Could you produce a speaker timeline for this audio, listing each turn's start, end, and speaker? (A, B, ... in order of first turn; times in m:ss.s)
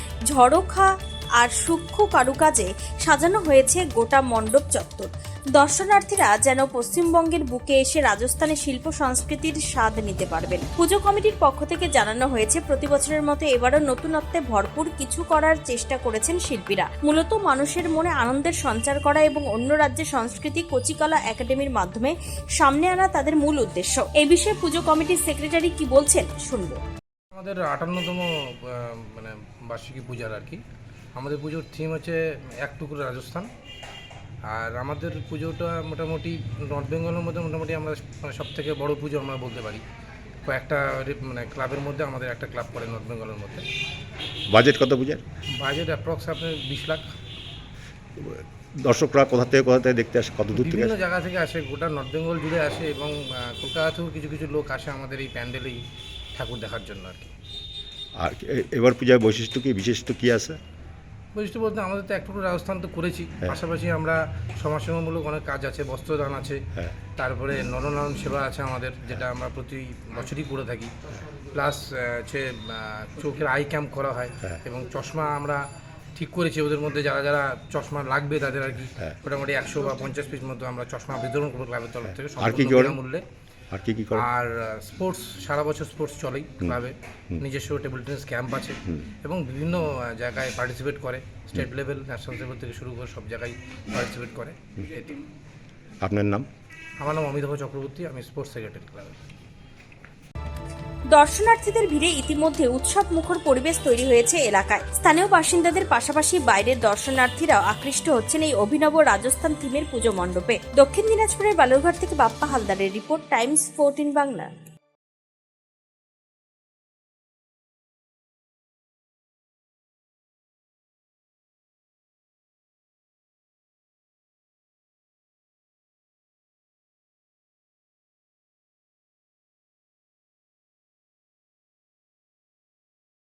0:00.3-0:26.8 A
0:27.3-0:30.6 B
0:31.2-0:33.5 B
0:34.5-0:39.8 B
0:40.5-0:43.7 B
0:44.5-0:45.2 C
0:45.6-0:47.1 B
0:48.2-0:50.9 C
0:50.5-0:55.8 B
0:56.4-0:57.3 B
0:58.2-1:00.6 C
1:01.4-1:06.6 B
1:07.2-1:10.9 B
1:11.5-1:15.6 B
1:16.2-1:23.2 B
1:22.4-1:23.0 C
1:23.7-1:24.3 C
1:24.1-1:35.2 B
1:36.0-1:36.5 C
1:37.0-1:39.2 B
1:41.1-1:54.6 A